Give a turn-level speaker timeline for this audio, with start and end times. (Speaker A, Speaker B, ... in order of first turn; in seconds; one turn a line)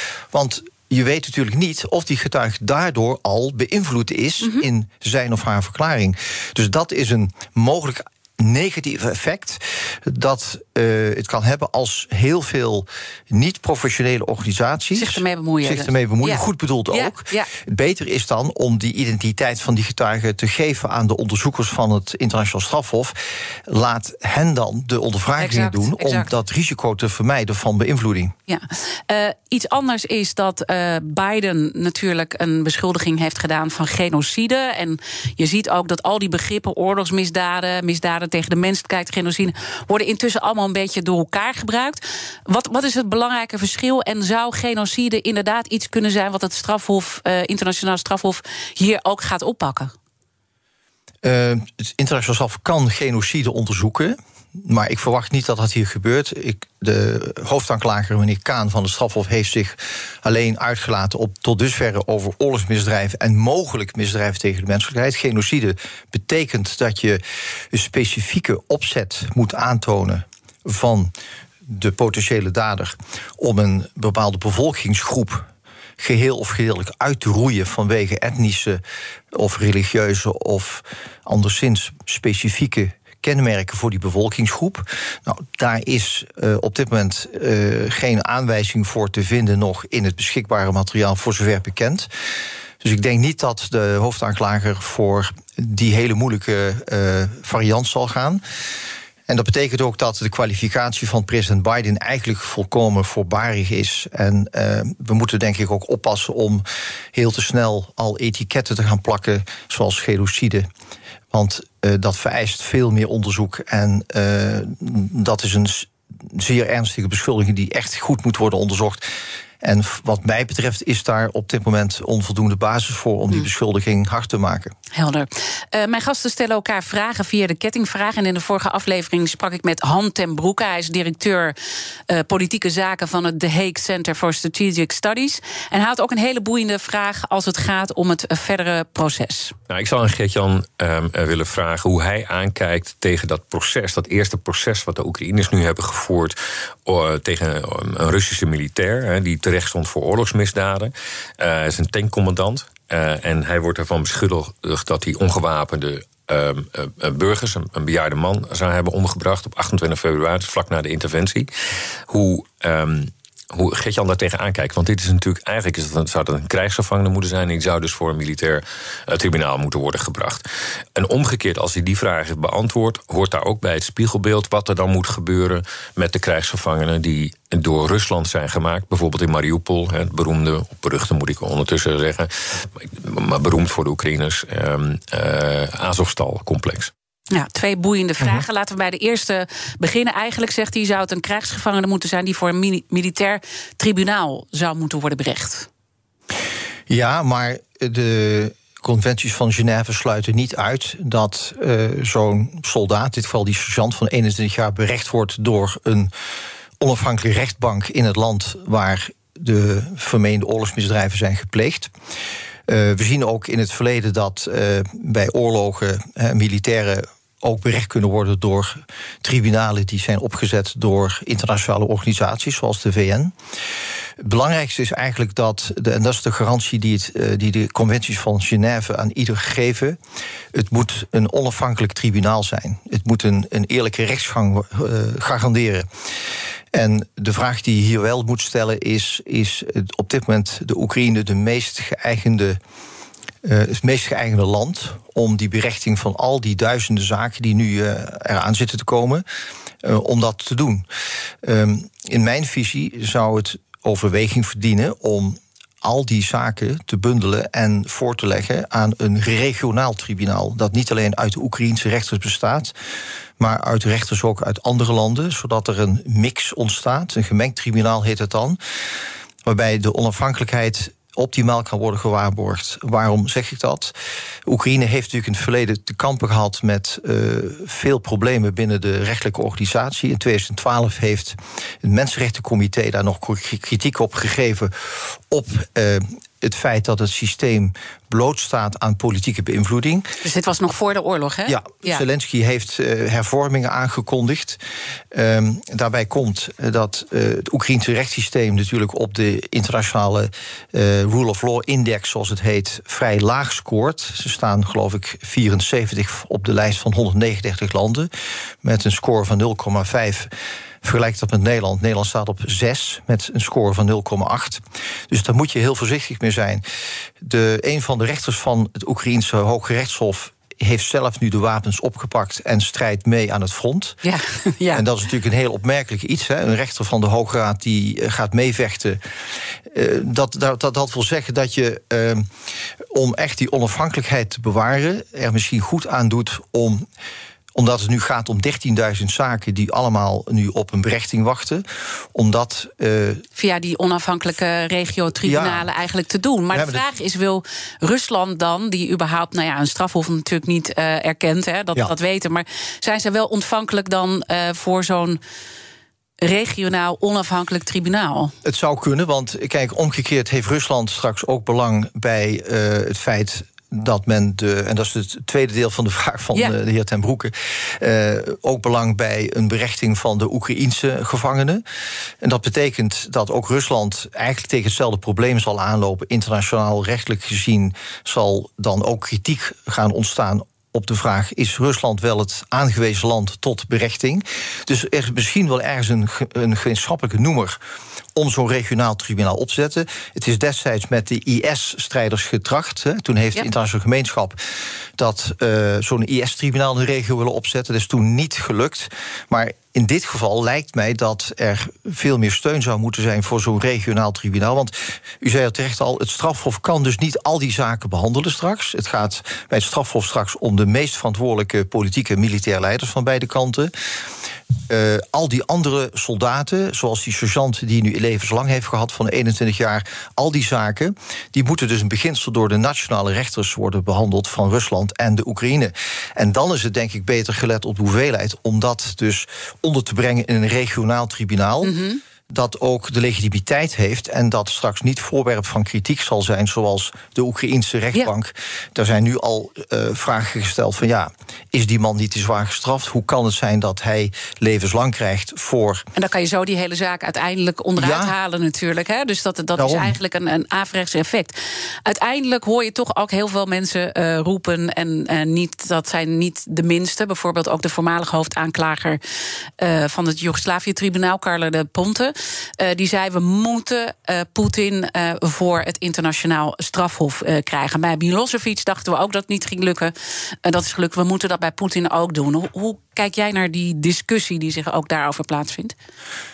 Speaker A: 0.3-28.3
Speaker B: 14.9-17.5
Speaker B: 25.4-26.3
Speaker B: 28.5-49.9
Speaker A: 51.2-71.1
Speaker A: 71.7-75.5
Speaker A: 76.0-78.8
Speaker A: 79.3-92.1
Speaker A: 92.8-98.4
Speaker A: 99.3-110.7
Speaker A: 111.3-119.0
Speaker A: 119.6-124.7
Speaker B: 124.9-131.5
Speaker B: 132.1-139.6
Speaker C: 139.7-161.5
Speaker C: 162.1-170.4
Speaker C: 170.9-186.9
Speaker B: 187.3-195.7
Speaker A: 196.9-206.1
Speaker A: 206.8-211.9
Speaker A: 212.7-223.3
Speaker A: 224.2-230.0
Speaker A: 230.5-235.9
Speaker A: 236.7-242.6
Speaker A: 243.4-249.2
Speaker A: 249.8-250.9
Speaker A: 251.4-262.7
Speaker A: 263.4-268.6
Speaker A: 269.4-273.9
Speaker A: 274.4-290.1
Speaker B: 290.2-292.0
Speaker A: 291.5-294.6
Speaker A: 295.1-308.1
Speaker A: 308.6-316.6
Speaker A: 317.2-324.0
Speaker B: 324.0-324.8
Speaker A: 324.7-329.0
Speaker A: 329.6-332.3
Speaker A: 332.9-336.8
Speaker A: 337.5-343.2
Speaker B: 343.4-355.2
Speaker A: 345.2-345.7
Speaker A: 346.5-346.8
Speaker B: 356.2-358.3
Speaker A: 358.4-371.6
Speaker A: 372.2-387.6
Speaker A: 388.1-413.7
Speaker A: 414.7-431.8
Speaker B: 431.6-432.0
Speaker A: 432.3-445.9
Speaker B: 445.9-459.0
Speaker A: 447.8-448.1
Speaker A: 449.6-449.9
Speaker B: 459.6-469.9
Speaker B: 470.4-475.7